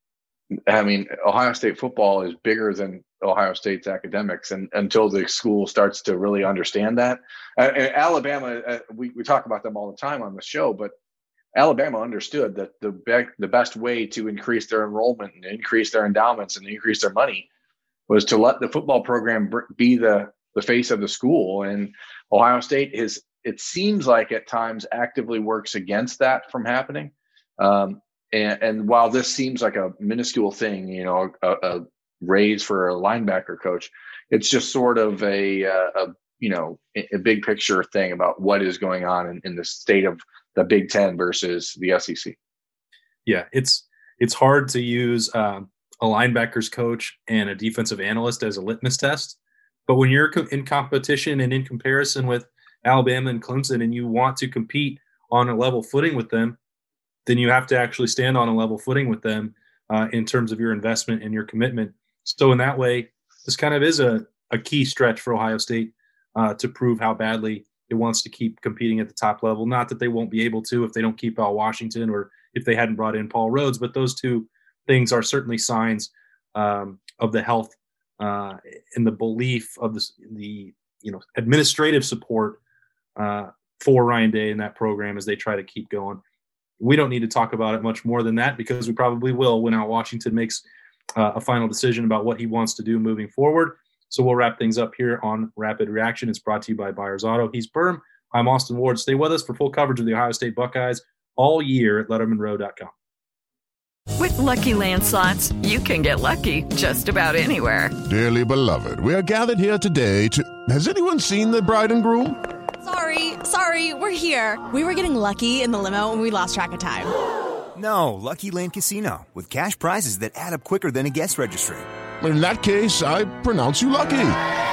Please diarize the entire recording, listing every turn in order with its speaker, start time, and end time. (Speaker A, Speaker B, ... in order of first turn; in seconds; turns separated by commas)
Speaker A: 0.7-10.9, Speaker A: 11.5-17.5, Speaker A: 18.1-42.4, Speaker B: 43.3-56.6, Speaker B: 57.2-82.6, Speaker B: 83.2-86.2, Speaker B: 86.8-90.6, Speaker B: 91.2-102.9, Speaker C: 104.2-107.9, Speaker D: 108.1-112.4, Speaker E: 112.8-117.1, Speaker F: 117.7-121.9, Speaker D: 122.2-124.4